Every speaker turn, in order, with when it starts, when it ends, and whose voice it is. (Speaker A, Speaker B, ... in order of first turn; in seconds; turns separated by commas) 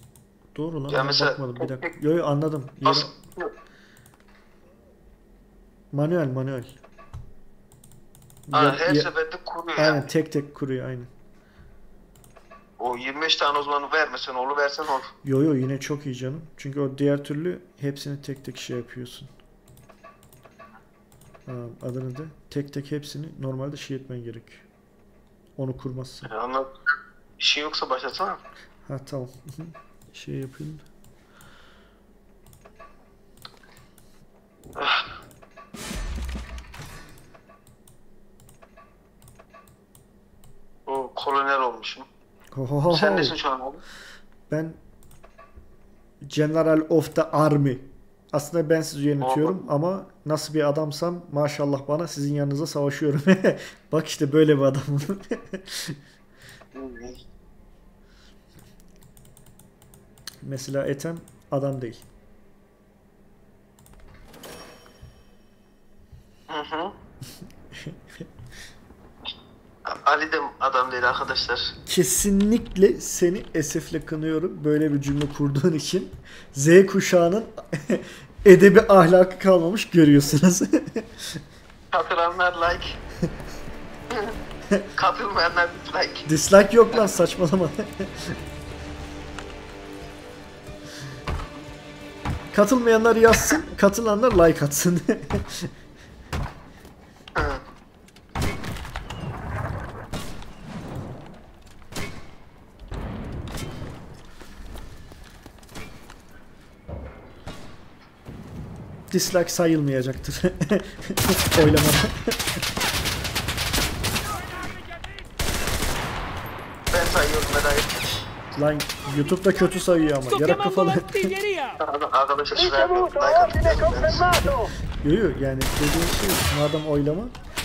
Speaker A: 0.5-3.1, Speaker B: 0.9-1.9, Speaker B: 2.8-3.5, Speaker A: 5.9-6.7, Speaker A: 8.5-9.1, Speaker B: 8.5-10.0, Speaker A: 9.8-11.1, Speaker B: 12.8-15.1, Speaker A: 15.2-19.3, Speaker A: 21.5-24.6, Speaker A: 25.6-26.3, Speaker B: 26.2-26.7, Speaker B: 27.4-28.4, Speaker A: 28.9-30.9, Speaker B: 34.8-35.1, Speaker B: 40.9-42.1, Speaker A: 42.5-43.4, Speaker B: 42.9-43.8, Speaker A: 44.5-44.8, Speaker A: 46.2-56.0, Speaker B: 49.2-49.7, Speaker B: 56.7-57.2, Speaker A: 60.4-62.0, Speaker B: 66.5-67.0, Speaker A: 67.8-68.3, Speaker B: 69.8-71.7, Speaker A: 71.9-81.4, Speaker B: 81.9-83.0, Speaker B: 84.1-84.4, Speaker B: 85.0-86.3, Speaker A: 86.3-88.4, Speaker A: 92.5-95.7, Speaker B: 97.3-97.6, Speaker A: 109.1-112.6, Speaker B: 116.9-117.9, Speaker A: 118.5-121.5, Speaker B: 121.8-124.5, Speaker A: 124.4-127.3